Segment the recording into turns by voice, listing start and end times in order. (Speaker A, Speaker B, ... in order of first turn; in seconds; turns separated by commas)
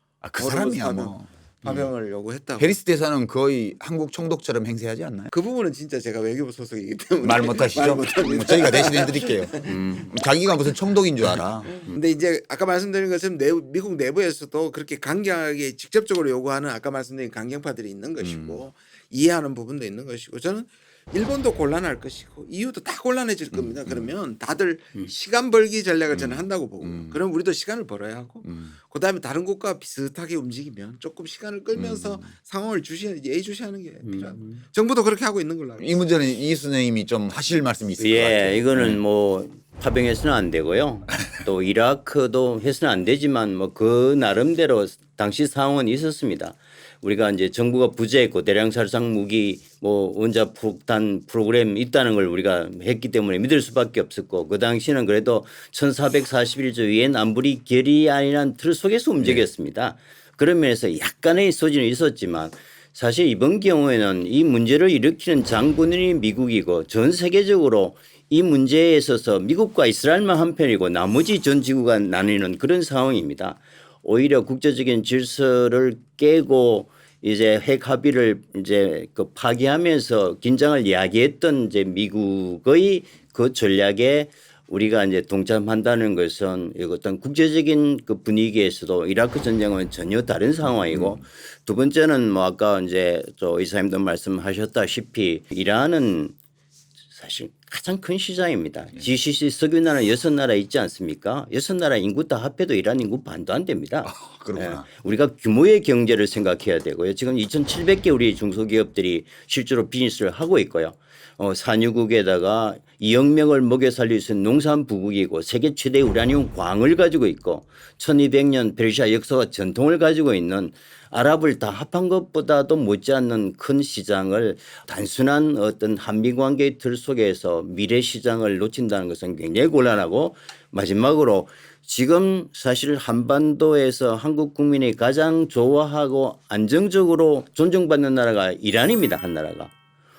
Speaker A: 0.2-1.9, Speaker B: 0.4-2.7, Speaker A: 2.6-5.3, Speaker B: 5.3-9.7, Speaker A: 7.2-11.7, Speaker C: 9.7-10.1, Speaker B: 11.8-36.0, Speaker A: 18.2-18.6, Speaker A: 23.5-24.1, Speaker A: 26.1-27.2, Speaker A: 28.4-28.8, Speaker A: 31.7-32.3, Speaker C: 34.0-34.6, Speaker A: 35.8-39.0, Speaker C: 38.0-96.3, Speaker A: 59.2-59.5, Speaker A: 90.6-91.2, Speaker C: 97.1-139.7, Speaker A: 104.0-104.8